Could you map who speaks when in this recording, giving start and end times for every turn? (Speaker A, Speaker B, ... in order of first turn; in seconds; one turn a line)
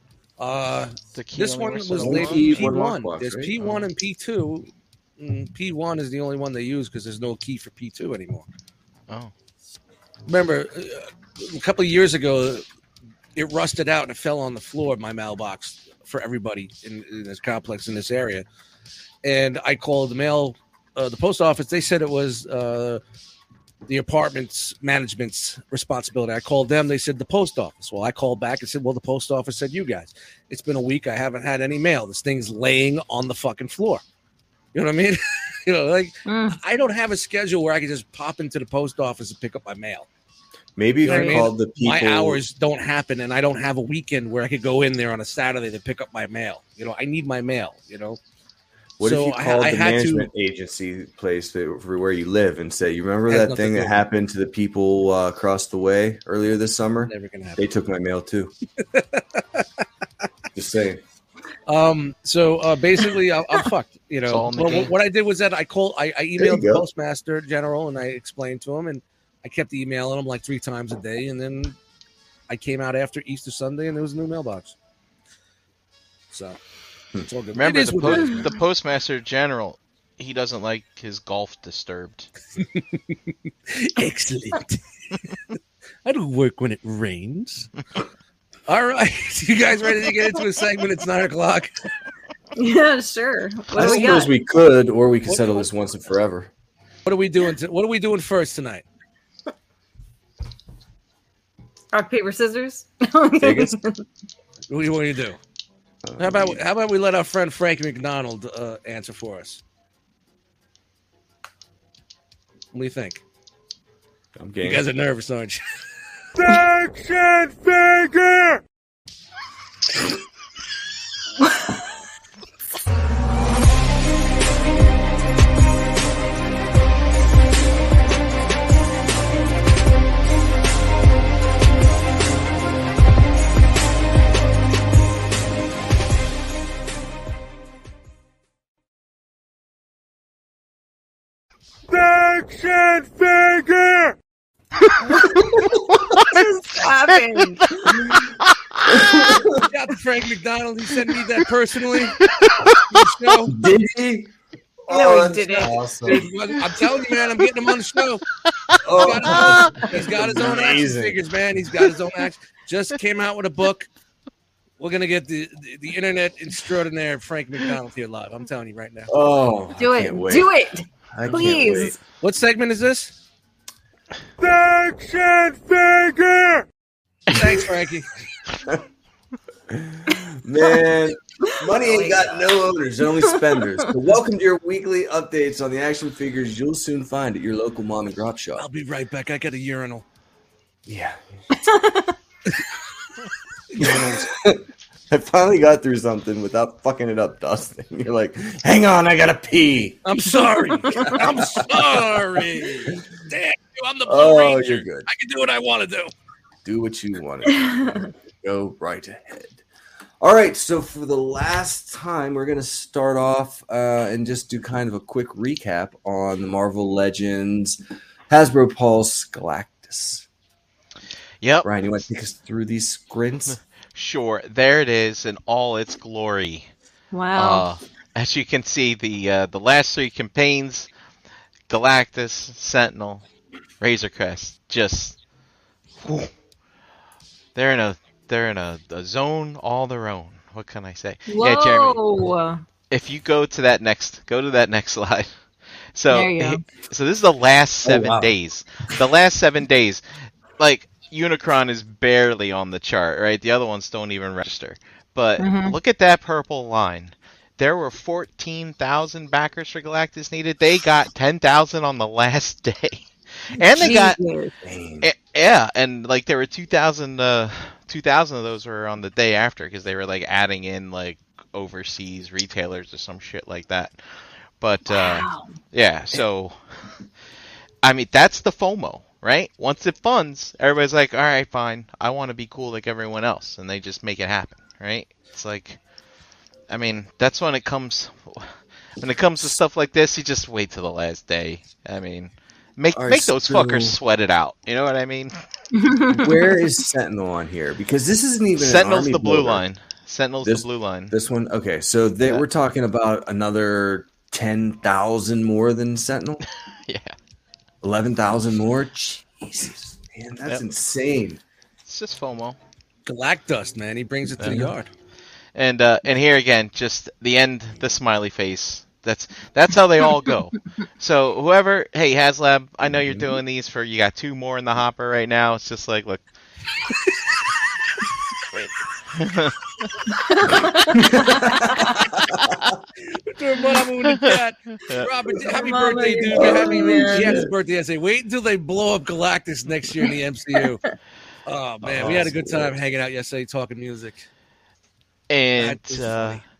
Speaker A: 0.4-8.5
Speaker B: 1.1-2.7
Speaker C: 1.9-3.5
Speaker B: 3.6-3.9
Speaker A: 10.2-12.6
Speaker A: 13.3-18.4
Speaker A: 19.2-23.0
Speaker A: 23.9-34.0
Speaker A: 34.7-40.1
Speaker D: 36.2-36.6
Speaker C: 40.8-42.4
Speaker A: 41.0-48.2
Speaker D: 41.0-41.4
Speaker C: 49.0-58.5
Speaker A: 49.0-50.3
Speaker A: 53.3-54.0
Speaker A: 57.1-57.6
Speaker A: 58.8-59.7
Speaker C: 60.5-61.0
Speaker A: 61.7-71.8
Speaker B: 64.2-64.9
Speaker C: 66.4-66.8
Speaker A: 72.5-74.8
Speaker A: 76.3-76.6
Speaker A: 77.2-78.5
Speaker B: 77.5-82.3
Speaker A: 82.6-83.2
Speaker A: 83.7-85.1
Speaker A: 86.0-87.7
Speaker A: 88.7-91.7
Speaker D: 92.5-94.3
Speaker C: 93.7-96.5
Speaker A: 95.3-95.6
Speaker A: 97.0-98.8
Speaker D: 101.9-104.0
Speaker C: 103.4-103.8
Speaker A: 104.7-105.4
Speaker C: 106.0-106.6
Speaker A: 106.2-109.6
Speaker A: 112.7-113.2
Speaker C: 114.4-114.8
Speaker A: 114.6-115.6
Speaker D: 145.1-145.5
Speaker C: 145.2-145.9
Speaker D: 146.1-148.1
Speaker B: 147.4-149.1
Speaker C: 148.1-148.3
Speaker C: 148.8-149.7
Speaker A: 149.4-152.2
Speaker B: 152.2-153.1
Speaker A: 152.9-153.6
Speaker C: 153.5-154.3
Speaker C: 154.9-156.3
Speaker D: 154.9-155.9
Speaker A: 156.0-158.2
Speaker B: 158.4-158.8
Speaker C: 158.8-161.2
Speaker A: 158.9-163.9
Speaker B: 159.3-159.7
Speaker A: 164.8-169.1
Speaker C: 169.1-170.5
Speaker D: 169.8-172.0
Speaker C: 171.1-172.0
Speaker A: 172.2-173.1
Speaker A: 177.3-178.1
Speaker C: 179.7-188.7
Speaker D: 181.4-182.4
Speaker A: 188.6-190.1
Speaker C: 190.8-191.2
Speaker D: 191.5-192.1
Speaker A: 193.7-194.3
Speaker C: 193.8-200.0
Speaker A: 200.0-206.1
Speaker C: 200.8-203.0
Speaker C: 204.0-205.1
Speaker C: 206.6-209.6
Speaker D: 207.6-207.8
Speaker C: 210.2-217.8
Speaker C: 218.3-220.2
Speaker B: 221.4-221.7
Speaker C: 221.6-223.6
Speaker B: 223.9-226.7
Speaker D: 227.1-227.6
Speaker B: 227.4-230.9
Speaker B: 231.7-233.2
Speaker B: 233.8-235.2
Speaker B: 236.0-236.3
Speaker B: 237.5-242.0
Speaker D: 241.3-242.6
Speaker B: 242.9-245.3
Speaker B: 245.9-250.0
Speaker D: 246.1-246.6
Speaker C: 247.8-248.3
Speaker B: 250.6-264.2
Speaker D: 255.4-255.8
Speaker D: 263.6-264.5
Speaker C: 264.6-265.1
Speaker B: 265.0-273.9
Speaker B: 274.6-276.6
Speaker D: 274.9-275.5
Speaker B: 277.8-285.8
Speaker B: 286.7-295.3
Speaker C: 292.9-294.0
Speaker D: 295.7-296.6
Speaker C: 296.1-299.6
Speaker B: 298.6-301.1
Speaker C: 300.4-306.4
Speaker B: 306.9-307.1
Speaker C: 307.8-311.4
Speaker B: 311.9-312.6
Speaker A: 313.1-314.9
Speaker B: 314.4-314.7
Speaker C: 314.4-314.7
Speaker B: 315.5-326.2
Speaker C: 322.9-323.4
Speaker B: 328.5-329.9
Speaker D: 330.1-331.8
Speaker C: 330.4-332.6
Speaker A: 333.1-340.8
Speaker B: 334.0-335.1
Speaker D: 335.4-337.4
Speaker C: 336.3-337.5
Speaker A: 341.4-344.3
Speaker B: 341.9-342.3
Speaker C: 341.9-342.8
Speaker B: 345.3-346.4
Speaker A: 345.6-346.4